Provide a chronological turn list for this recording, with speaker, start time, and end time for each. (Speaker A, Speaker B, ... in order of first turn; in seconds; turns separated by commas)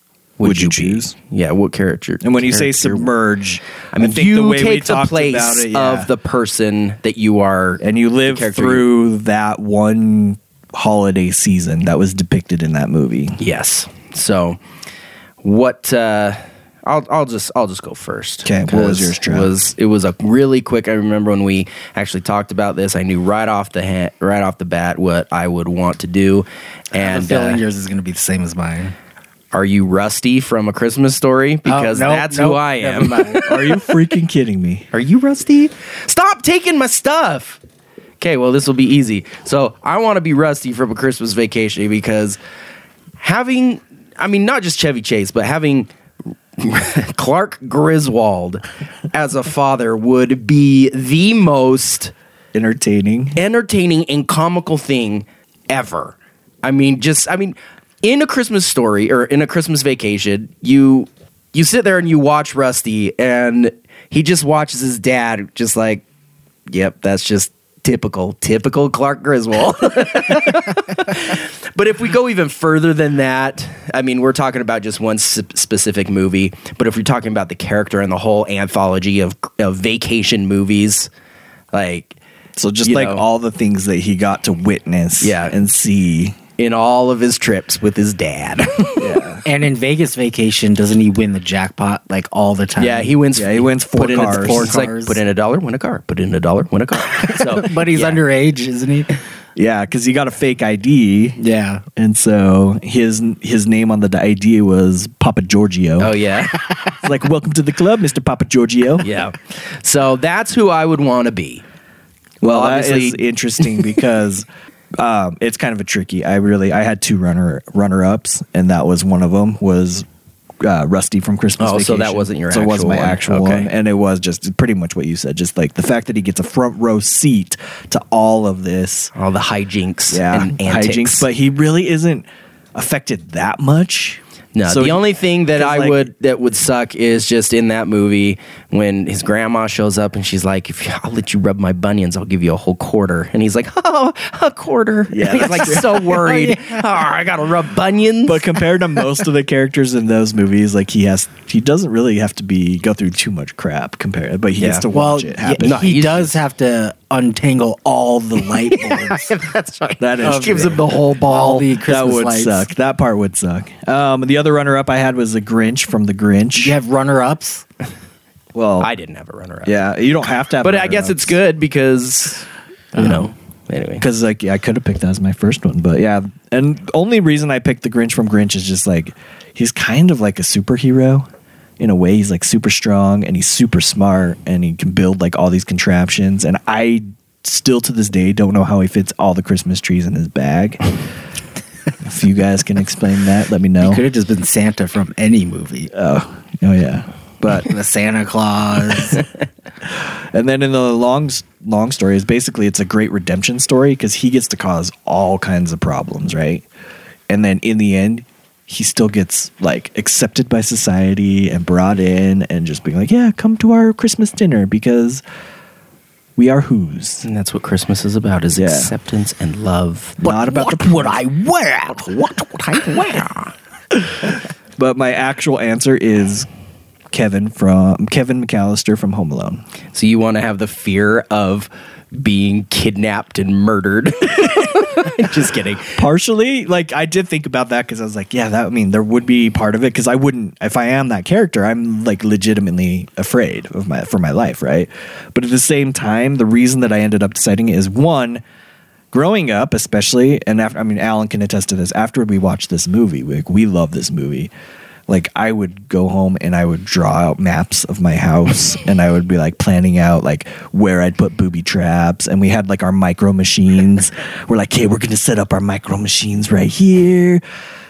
Speaker A: 0.4-3.1, Speaker B: 0.4-1.1, Speaker B: 2.2-6.1, Speaker A: 3.9-8.9, Speaker B: 7.8-13.4, Speaker A: 13.4-14.6, Speaker A: 15.4-27.6, Speaker B: 18.4-19.5, Speaker C: 26.9-28.9, Speaker A: 29.5-33.6, Speaker C: 31.6-33.5, Speaker B: 33.4-34.9, Speaker A: 34.9-37.6, Speaker A: 38.2-42.4, Speaker A: 43.2-45.9, Speaker A: 46.6-52.1, Speaker B: 52.5-53.4, Speaker A: 53.4-66.0, Speaker A: 66.7-81.1, Speaker A: 81.7-82.2, Speaker B: 82.5-86.4, Speaker A: 82.8-83.2, Speaker A: 85.2-85.5, Speaker A: 86.6-89.2, Speaker B: 89.0-89.4, Speaker C: 89.4-93.1, Speaker A: 92.8-98.2, Speaker B: 93.3-94.7, Speaker C: 94.1-95.2, Speaker C: 97.3-99.2, Speaker B: 99.5-101.4, Speaker C: 101.4-101.8, Speaker B: 102.0-106.1, Speaker A: 106.0-106.5, Speaker B: 107.0-109.1, Speaker A: 109.0-111.6, Speaker B: 112.4-120.0, Speaker A: 112.4-113.2, Speaker B: 120.6-129.1, Speaker A: 121.6-123.7, Speaker A: 129.1-131.3, Speaker B: 130.1-136.1, Speaker A: 134.5-148.5, Speaker B: 145.1-146.1, Speaker C: 145.4-146.8, Speaker B: 148.2-155.8, Speaker A: 154.6-154.8, Speaker C: 154.9-159.6, Speaker A: 155.6-156.4, Speaker A: 158.7-160.9, Speaker B: 160.0-166.8, Speaker C: 160.2-162.7, Speaker C: 166.6-167.7, Speaker B: 168.5-168.9, Speaker A: 168.8-169.8, Speaker B: 169.6-171.4, Speaker A: 170.6-174.0, Speaker B: 173.0-173.2, Speaker B: 174.0-181.3, Speaker B: 181.8-190.8, Speaker B: 192.0-194.0, Speaker C: 193.8-195.9, Speaker B: 195.9-197.7, Speaker C: 197.7-199.2, Speaker B: 200.0-206.7, Speaker B: 207.3-215.2, Speaker B: 216.3-217.2, Speaker A: 217.2-220.5, Speaker B: 218.5-218.9, Speaker B: 220.2-221.3, Speaker C: 220.6-223.1, Speaker A: 223.1-223.4, Speaker B: 224.8-226.5, Speaker B: 227.1-229.6, Speaker A: 229.9-236.0, Speaker B: 235.9-248.4, Speaker B: 249.1-254.5, Speaker B: 255.1-267.4